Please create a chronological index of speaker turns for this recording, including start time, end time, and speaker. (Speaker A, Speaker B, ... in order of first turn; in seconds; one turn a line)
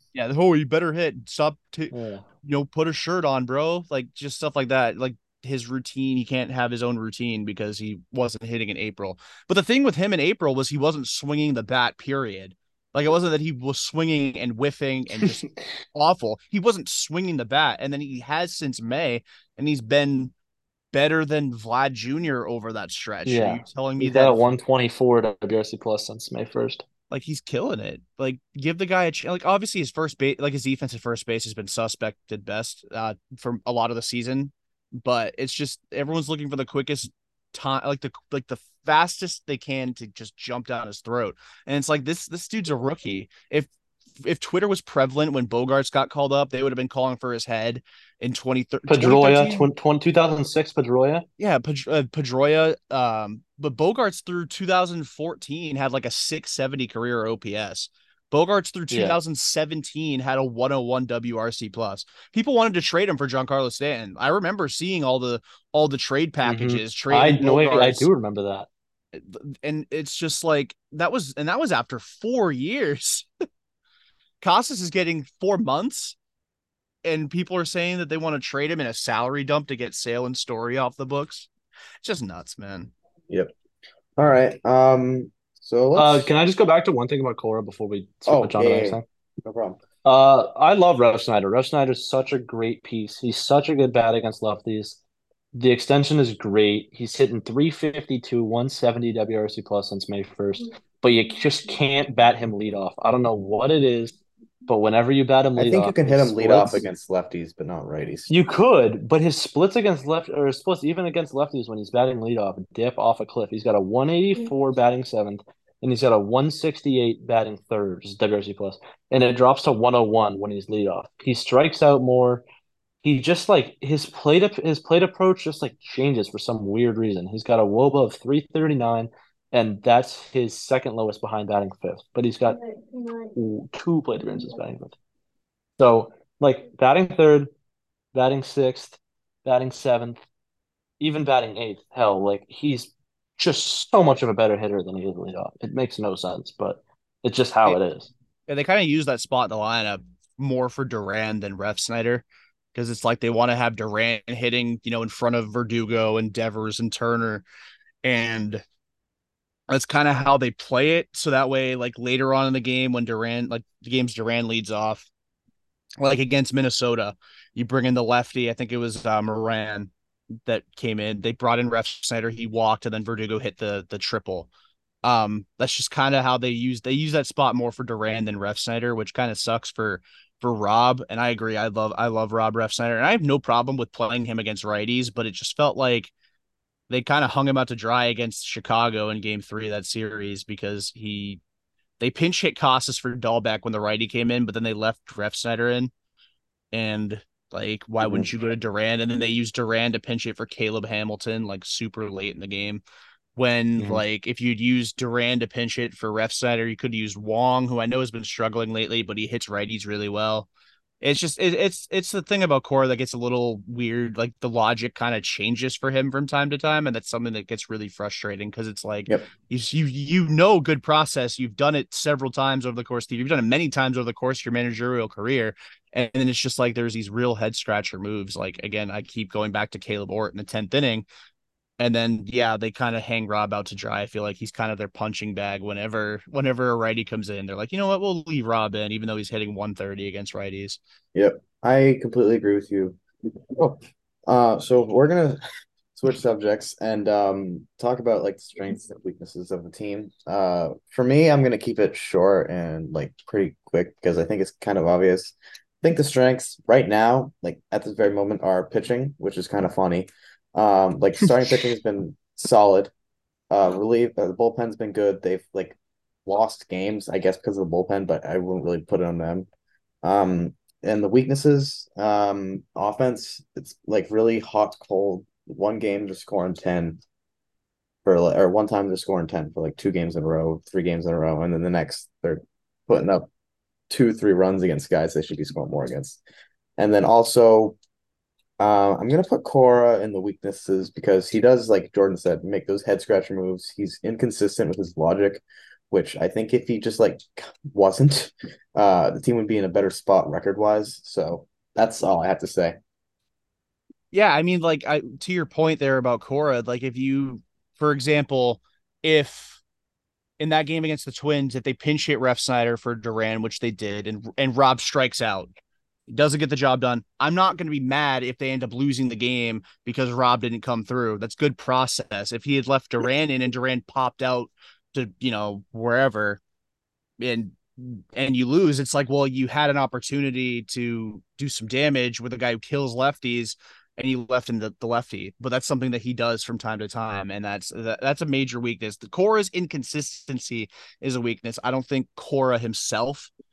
Speaker A: 0.1-20.3
Speaker B: 1.9-2.2
Speaker A: 20.9-24.4
Speaker B: 23.2-26.8
Speaker A: 27.1-43.7
Speaker A: 44.2-49.7
Speaker B: 48.9-51.2
Speaker A: 51.4-68.1
Speaker B: 58.9-59.2
Speaker B: 66.4-68.7
Speaker A: 69.1-73.3
Speaker A: 74.4-76.2
Speaker A: 77.0-81.5
Speaker A: 82.0-82.9
Speaker C: 84.2-86.3
Speaker B: 86.0-89.0
Speaker C: 88.3-89.8
Speaker B: 90.0-95.0
Speaker B: 95.5-106.8
Speaker C: 105.5-108.3
Speaker B: 108.3-122.4
Speaker B: 123.0-134.9
Speaker B: 135.8-137.5
Speaker B: 138.1-140.2
Speaker B: 141.0-148.1
Speaker A: 148.5-157.4
Speaker A: 158.0-158.6
Speaker A: 159.7-165.1
Speaker A: 166.0-169.9
Speaker A: 170.4-174.5
Speaker A: 175.0-186.1
Speaker A: 186.9-191.4
Speaker A: 192.0-195.9
Speaker A: 196.7-202.8
Speaker A: 203.3-210.5
Speaker A: 211.0-231.1
Speaker A: 231.8-240.8
Speaker C: 241.1-243.0
Speaker C: 243.5-245.4
Speaker C: 245.9-262.9
Speaker C: 263.5-269.5
Speaker C: 270.0-277.0
Speaker C: 278.0-283.3
Speaker C: 283.9-286.2
Speaker C: 286.8-287.8
Speaker C: 288.6-302.8
Speaker A: 304.1-309.6
Speaker A: 310.4-315.5
Speaker A: 316.1-326.4
Speaker A: 327.2-343.3